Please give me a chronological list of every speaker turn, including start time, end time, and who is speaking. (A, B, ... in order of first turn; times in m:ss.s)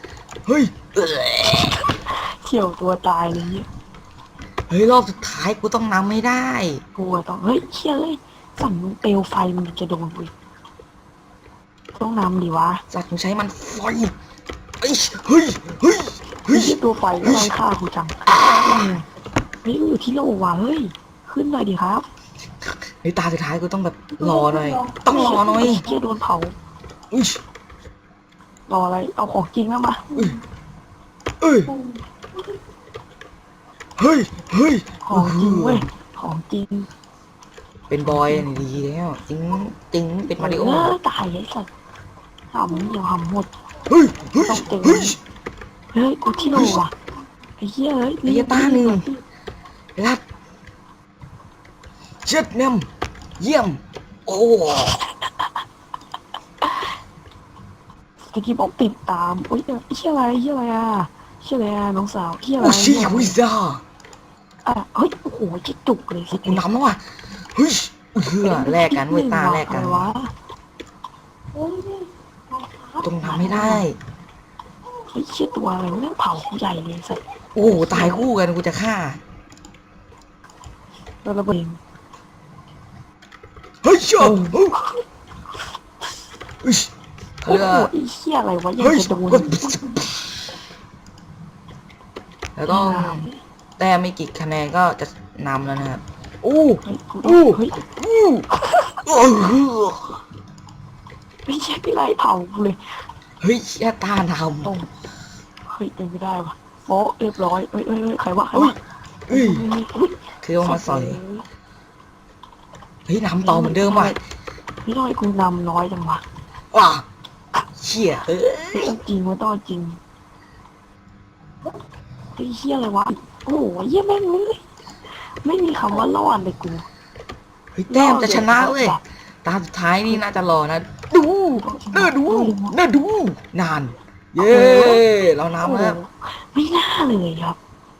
0:00.4-0:01.9 A
0:01.9-0:03.7 B
0:04.7-0:06.8 A
0:06.9-0:10.3 B
0:11.9-0:12.8 B
0:12.9-0:14.1 A
0:14.8-0:17.5 A
0:16.5-0:19.0 B
0:19.6-0:22.0 B
0:23.0-0:25.8 A
0:24.3-0:25.8 C
0:25.1-0:26.5 B
0:27.1-0:27.4 A
0:28.7-0:30.2 B
0:31.4-0:31.7 A
0:34.0-0:35.8 A
0:35.0-0:36.9 B
0:37.9-0:40.9 A
0:38.1-0:38.4 B
0:40.3-0:41.7 B
0:42.5-0:43.5 B
0:43.9-0:45.2 A
0:44.3-0:45.2 B
0:45.9-0:46.9 B
0:46.5-0:46.8 A
0:47.6-0:49.2 B
0:48.2-0:49.1 A
0:50.0-0:50.2 A
0:52.2-0:52.9 A
0:53.4-0:55.0 A
0:54.7-0:55.4 B
0:58.3-1:03.4 B
1:02.6-1:03.8 A
1:04.6-1:06.6 B
1:06.3-1:07.0 A
1:07.5-1:10.1 A
1:08.4-1:10.3 B
1:11.6-1:12.9 C
1:13.0-1:14.0 A
1:13.2-1:13.9 B
1:15.1-1:18.2 B
1:17.5-1:19.2 A
1:21.2-1:21.8 B
1:23.8-1:24.8 A
1:24.2-1:24.9 B
1:26.6-1:26.9 A
1:27.4-1:27.9 A
1:27.5-1:29.7 B
1:28.8-1:30.3 A
1:32.6-1:33.3 A
1:32.7-1:33.4 B
1:33.8-1:38.5 A
1:36.8-1:37.8 B
1:38.5-1:39.0 B
1:39.0-1:40.2 A
1:41.4-1:42.9 B
1:43.4-1:44.7 A
1:44.6-1:44.9 B
1:45.7-1:48.8 B
1:48.5-1:49.6 A
1:49.3-1:51.4 B
1:50.4-1:51.2 A
1:53.1-1:54.2 A
1:53.4-1:54.2 B
1:54.8-1:56.2 B
1:56.7-1:57.0 A
1:57.8-1:59.0 A
1:58.7-2:00.0 B
2:02.4-2:04.6 B
2:05.2-2:06.8 B
2:07.7-2:16.0 A
2:07.9-2:09.0 B
2:11.6-2:12.8 B
2:14.4-2:15.0 B
2:15.6-2:17.6 B